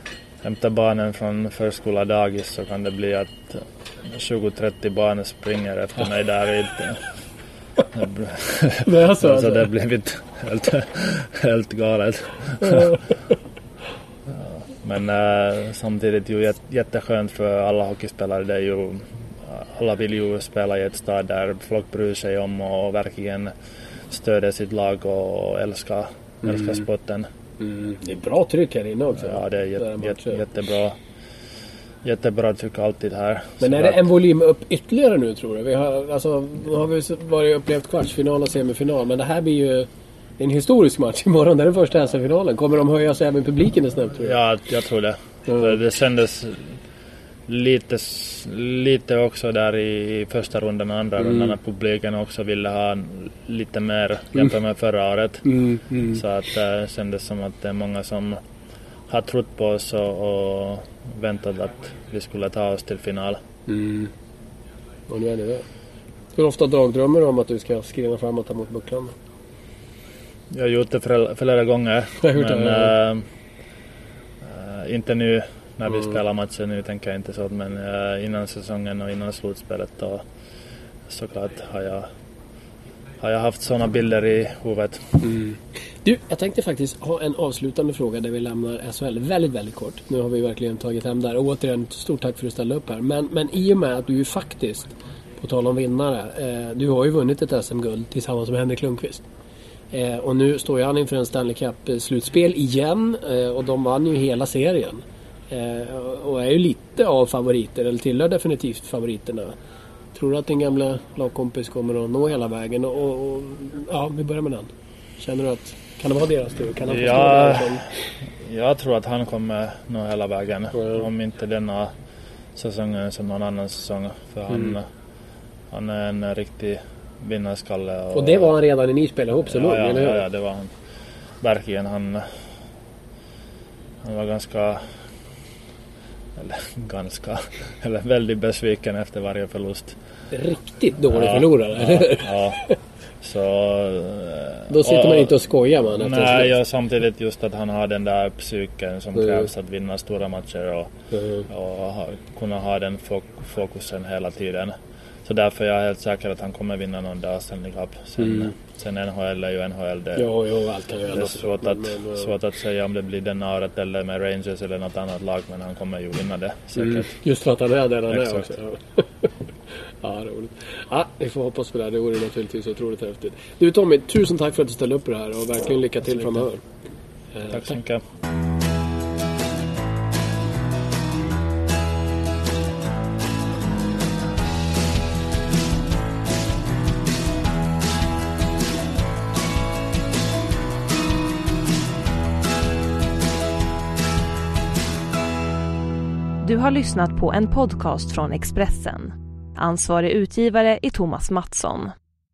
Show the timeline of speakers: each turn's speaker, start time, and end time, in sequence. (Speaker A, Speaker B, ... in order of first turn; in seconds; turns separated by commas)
Speaker A: 0.4-7.1, Speaker A: 7.9-13.0, Speaker B: 8.8-9.7, Speaker B: 12.6-13.0, Speaker A: 14.3-23.5, Speaker A: 24.1-27.3, Speaker B: 26.5-26.8, Speaker B: 27.6-30.4, Speaker A: 29.2-31.0, Speaker A: 32.0-34.0, Speaker B: 33.6-39.9, Speaker B: 40.4-44.4, Speaker A: 44.2-46.7, Speaker B: 45.5-45.8, Speaker A: 47.5-55.5, Speaker B: 51.2-51.5, Speaker B: 55.5-56.2, Speaker A: 56.1-58.4, Speaker A: 59.1-63.4, Speaker B: 63.7-64.1, Speaker B: 65.1-65.7, Speaker B: 66.3-69.2, Speaker A: 70.5-73.2, Speaker B: 72.2-72.9, Speaker A: 74.4-80.2, Speaker A: 81.1-82.1, Speaker A: 83.2-85.3, Speaker B: 85.2-99.2, Speaker B: 99.9-109.6, Speaker B: 110.1-118.0, Speaker A: 116.9-117.8, Speaker A: 118.4-121.9, Speaker A: 122.5-124.9, Speaker A: 125.7-128.6, Speaker B: 128.1-130.3, Speaker A: 129.5-130.7, Speaker A: 131.4-132.4, Speaker A: 134.0-134.9, Speaker A: 136.4-140.0, Speaker B: 140.3-142.8, Speaker A: 141.1-142.6, Speaker A: 143.2-145.4, Speaker B: 144.7-146.5, Speaker A: 145.9-150.9, Speaker B: 151.1-151.5, Speaker A: 151.5-160.3, Speaker B: 160.2-162.3, Speaker A: 161.1-167.1, Speaker B: 166.8-169.3, Speaker A: 168.1-168.4, Speaker B: 170.0-176.6, Speaker B: 177.3-177.7, Speaker A: 177.5-178.0, Speaker C: 196.4-201.9